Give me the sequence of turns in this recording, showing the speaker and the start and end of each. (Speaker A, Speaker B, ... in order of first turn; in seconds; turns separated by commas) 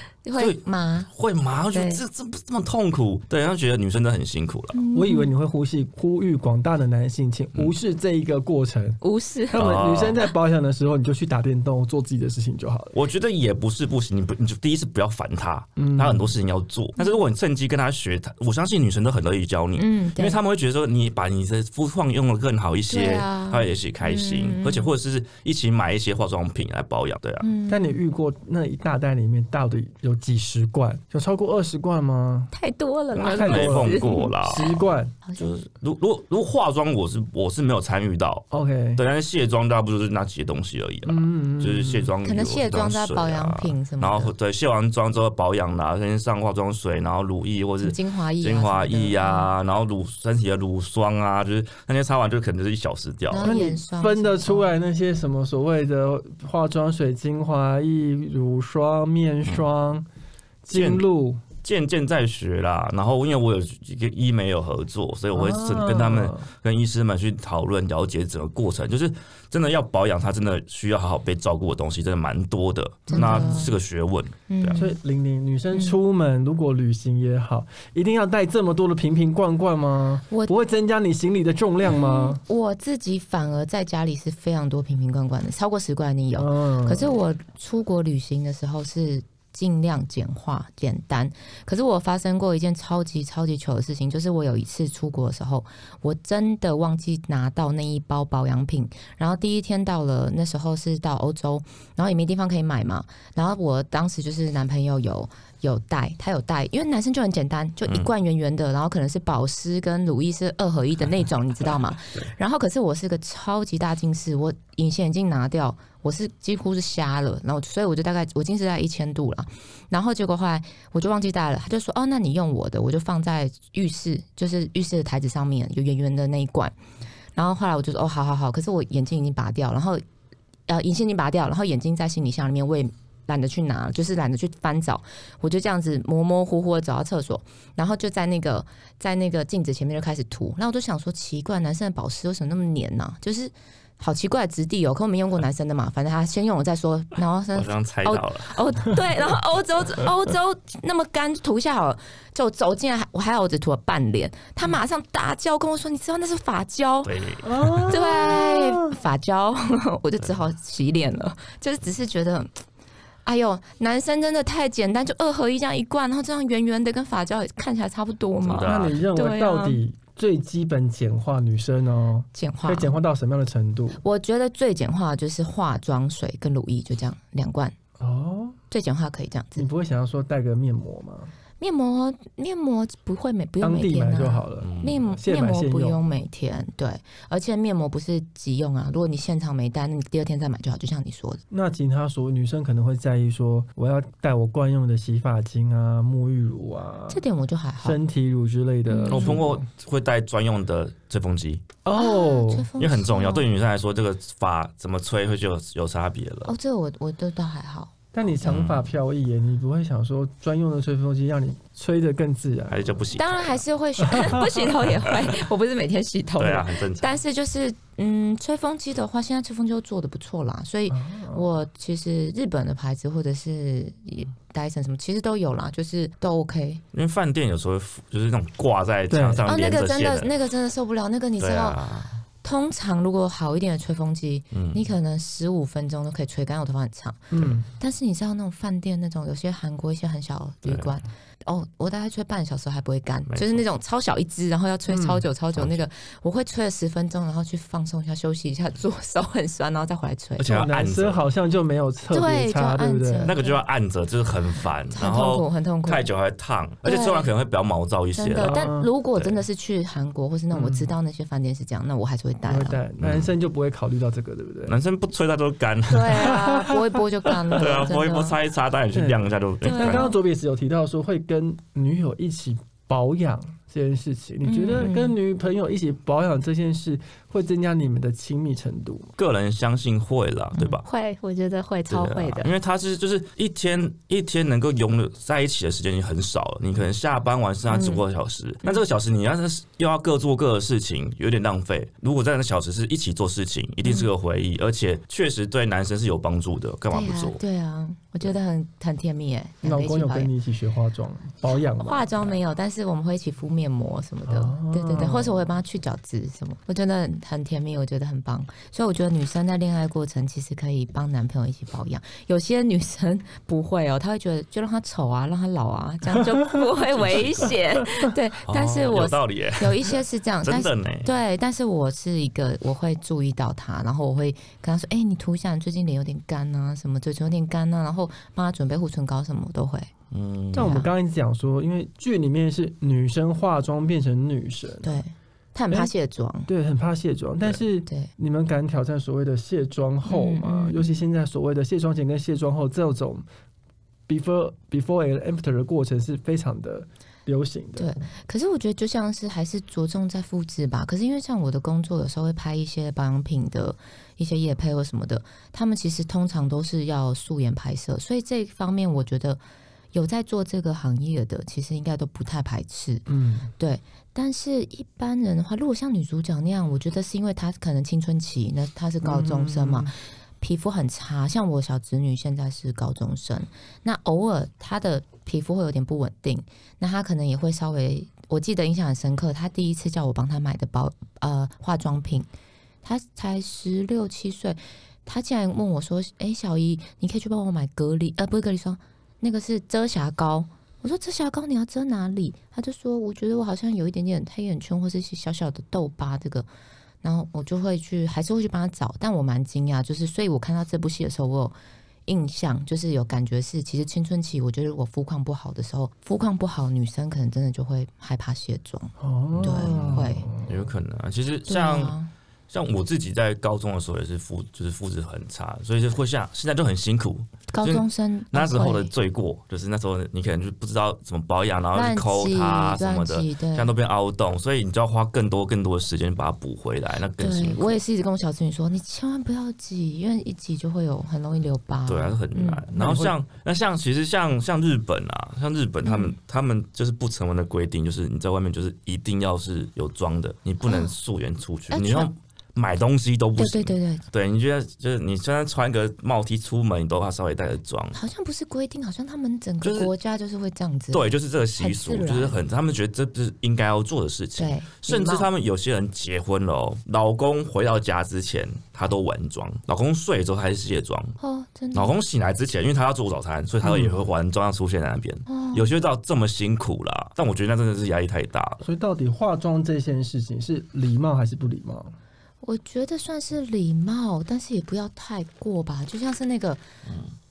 Speaker A: 0.2-1.1, Speaker B: 0.4-4.8, Speaker A: 1.7-2.0, Speaker A: 4.7-5.3, Speaker C: 4.9-12.9, Speaker A: 9.0-9.6, Speaker B: 9.5-10.2, Speaker B: 12.9-27.5, Speaker C: 15.8-16.4, Speaker A: 19.8-20.4, Speaker A: 22.9-24.9, Speaker A: 27.4-27.8, Speaker C: 27.7-32.5, Speaker A: 32.5-34.3, Speaker B: 33.1-34.8, Speaker C: 33.1-35.1, Speaker A: 35.2-35.5, Speaker B: 35.4-53.6, Speaker C: 38.5-39.0, Speaker C: 41.0-42.1, Speaker A: 42.2-44.3, Speaker A: 47.8-49.5, Speaker A: 53.3-54.7, Speaker C: 53.4-60.1, Speaker C: 60.6-61.4, Speaker B: 60.7-61.1, Speaker B: 61.6-74.9, Speaker C: 65.3-66.5, Speaker A: 73.1-73.8, Speaker C: 73.1-73.8, Speaker A: 74.5-75.0, Speaker C: 74.7-82.4, Speaker A: 81.8-126.8, Speaker C: 86.4-87.2, Speaker A: 127.3-130.0, Speaker A: 130.7-157.2, Speaker B: 147.5-148.6, Speaker B: 157.1-157.8, Speaker C: 157.4-158.9, Speaker A: 157.8-162.5, Speaker A: 163.2-169.8, Speaker B: 168.4-169.0, Speaker C: 168.6-174.0, Speaker A: 172.3-173.0, Speaker A: 174.0-177.8, Speaker C: 178.0-178.6, Speaker A: 178.7-179.7, Speaker C: 179.6-181.3, Speaker A: 181.6-191.4, Speaker C: 183.6-186.0, Speaker B: 184.6-185.2, Speaker C: 191.5-197.2, Speaker A: 197.1-198.0, Speaker C: 197.8-199.7, Speaker A: 198.9-199.4, Speaker B: 199.1-201.6, Speaker C: 201.8-202.7, Speaker A: 201.9-203.5, Speaker B: 202.8-206.5, Speaker A: 206.5-207.9, Speaker C: 208.1-213.0, Speaker B: 208.4-208.9, Speaker B: 212.7-213.5, Speaker A: 213.2-226.8, Speaker C: 214.1-214.6, Speaker B: 214.9-215.3, Speaker B: 216.4-217.2, Speaker C: 220.9-221.5, Speaker B: 226.9-230.3, Speaker C: 229.1-229.4, Speaker A: 229.5-231.8, Speaker B: 231.4-232.2, Speaker A: 232.4-250.7, Speaker B: 234.5-234.9, Speaker C: 237.3-237.7, Speaker B: 240.7-240.9, Speaker B: 243.3-243.6, Speaker C: 244.9-245.2, Speaker B: 250.4-251.3, Speaker C: 250.5-253.3, Speaker A: 252.1-253.6, Speaker B: 253.2-258.6, Speaker A: 254.9-256.1, Speaker A: 256.9-257.3, Speaker A: 258.1-262.8, Speaker C: 258.4-258.9, Speaker B: 259.2-259.4, Speaker C: 260.5-260.9, Speaker C: 262.4-264.8, Speaker B: 263.0-263.4, Speaker B: 264.7-266.4, Speaker A: 265.9-268.4, Speaker C: 266.0-267.6, Speaker B: 267.5-270.1, Speaker C: 268.9-279.1, Speaker A: 269.6-270.1, Speaker A: 274.4-275.2, Speaker B: 279.2-280.8, Speaker A: 280.6-282.5, Speaker B: 281.9-297.4, Speaker A: 287.7-288.0, Speaker A: 296.9-300.3, Speaker C: 299.6-302.4, Speaker A: 301.5-329.9, Speaker C: 304.3-305.4, Speaker B: 316.8-317.8, Speaker B: 318.5-321.1, Speaker B: 330.1-330.8, Speaker A: 330.5-330.9, Speaker C: 330.5-335.0, Speaker A: 334.8-336.5, Speaker C: 336.5-343.3, Speaker A: 337.9-338.1, Speaker A: 340.1-341.1, Speaker C: 344.1-347.9, Speaker A: 347.8-359.4, Speaker A: 359.9-363.1, Speaker C: 363.1-363.5, Speaker A: 363.6-382.3, Speaker C: 369.0-369.9, Speaker A: 382.8-396.5, Speaker A: 397.0-410.3, Speaker C: 409.0-410.7, Speaker B: 409.4-412.0, Speaker A: 411.5-412.1, Speaker B: 412.5-427.8, Speaker A: 417.5-418.9, Speaker A: 421.7-423.7, Speaker A: 427.2-433.1, Speaker B: 431.9-448.0, Speaker A: 435.8-436.2, Speaker A: 440.6-440.9, Speaker A: 441.7-442.1, Speaker A: 443.4-444.0, Speaker A: 447.9-452.4, Speaker B: 449.6-449.9, Speaker B: 450.9-461.2, Speaker A: 454.4-455.3, Speaker A: 461.2-462.0, Speaker B: 461.7-468.6, Speaker C: 463.6-463.9, Speaker A: 465.3-465.7, Speaker C: 468.6-471.9, Speaker A: 472.4-476.6, Speaker B: 476.9-477.1